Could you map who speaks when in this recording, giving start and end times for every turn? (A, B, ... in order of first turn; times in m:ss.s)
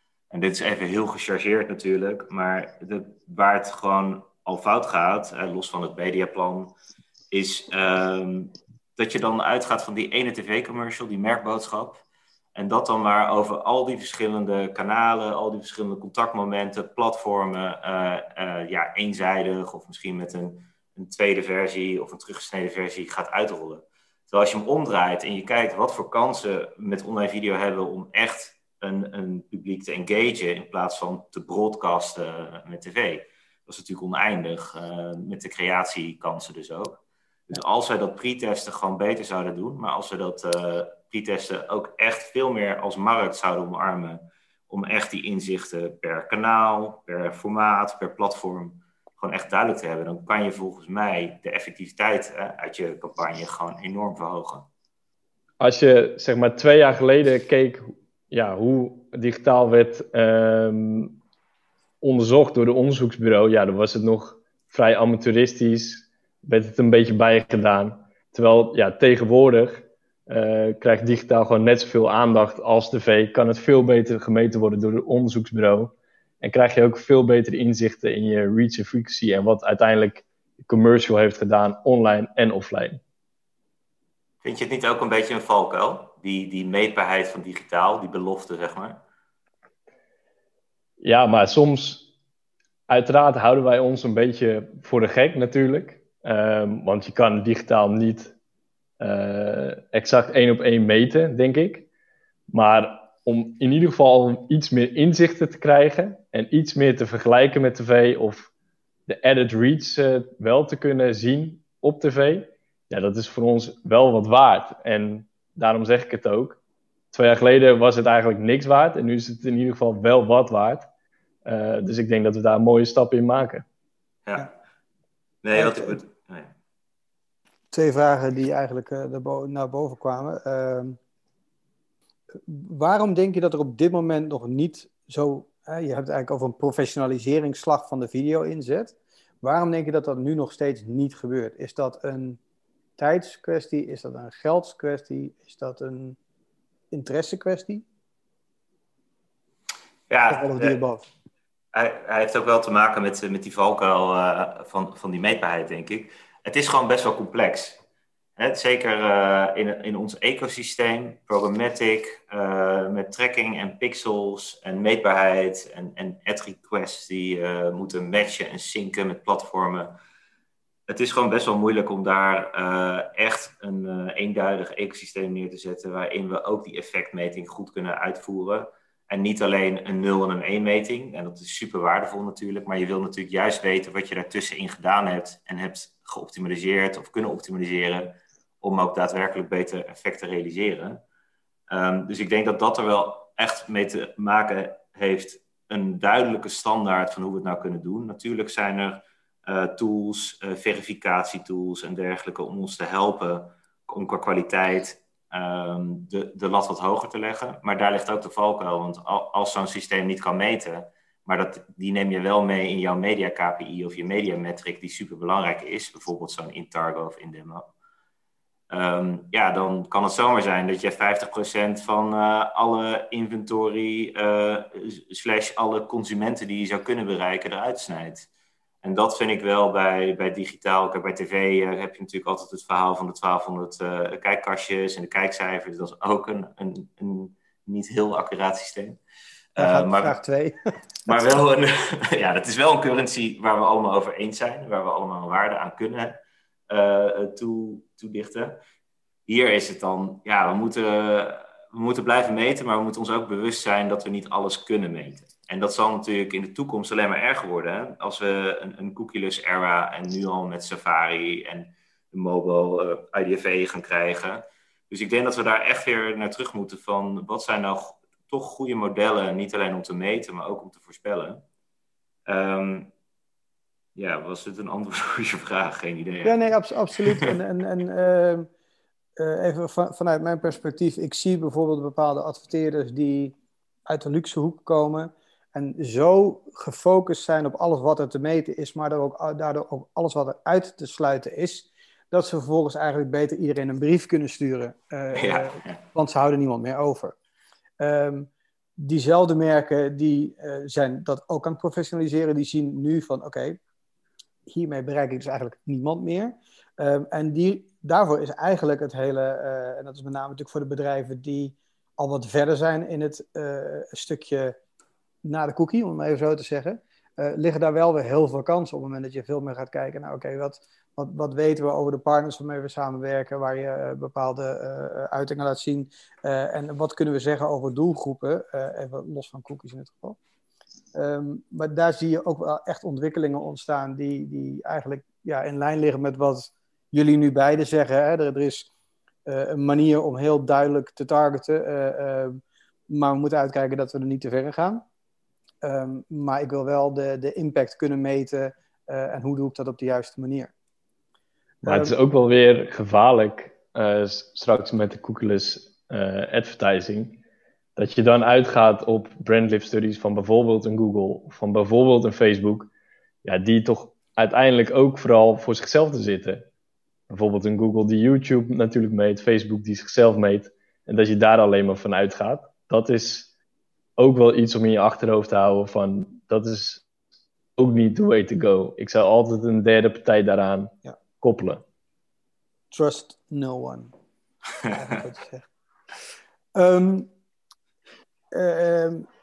0:00.3-0:06.8 A
0:07.3-0:12.0 A
0:12.6-0:54.7 A
0:55.6-1:01.2 B
1:02.0-1:23.0 B
1:24.4-1:29.0 A
1:31.0-1:32.1 B
1:32.9-1:38.3 B
1:39.0-1:41.9 B
1:42.5-1:48.5 B
1:49.1-1:56.6 B
1:57.1-2:00.9 B
2:01.4-2:03.6 B
2:05.4-2:06.5 A
2:05.5-2:06.0 C
2:07.7-2:11.0 C
2:12.5-2:22.4 C
2:23.0-2:26.2 C
2:26.9-2:27.8 C
2:30.1-2:30.8 A
2:30.3-2:31.0 C
2:31.7-2:37.8 A
2:38.4-2:50.0 A
2:50.9-3:11.0 A
3:11.7-3:37.6 A
3:38.7-3:48.3 A
3:48.8-3:59.0 A
3:59.6-4:00.2 A
3:59.6-4:01.3 C
4:01.1-4:08.6 A
4:09.3-4:31.4 A
4:32.3-4:32.9 A
4:34.0-4:36.5 A
4:36.2-4:38.5 C
4:39.2-4:57.2 C
4:55.2-4:55.8 A
4:57.8-5:03.6 C
5:04.5-5:14.6 C
5:15.2-5:30.2 C
5:30.9-5:38.7 C
5:39.3-5:44.8 C
5:45.6-5:50.5 C
5:51.6-5:57.2 B
5:51.6-5:52.0 C
5:57.8-6:02.7 B
6:03.2-6:06.5 B
6:07.1-6:13.3 B
6:14.0-6:16.8 B
6:17.6-6:21.6 B
6:22.7-6:23.9 C
6:24.6-6:25.5 C
6:26.5-6:27.1 C
6:28.3-6:29.1 C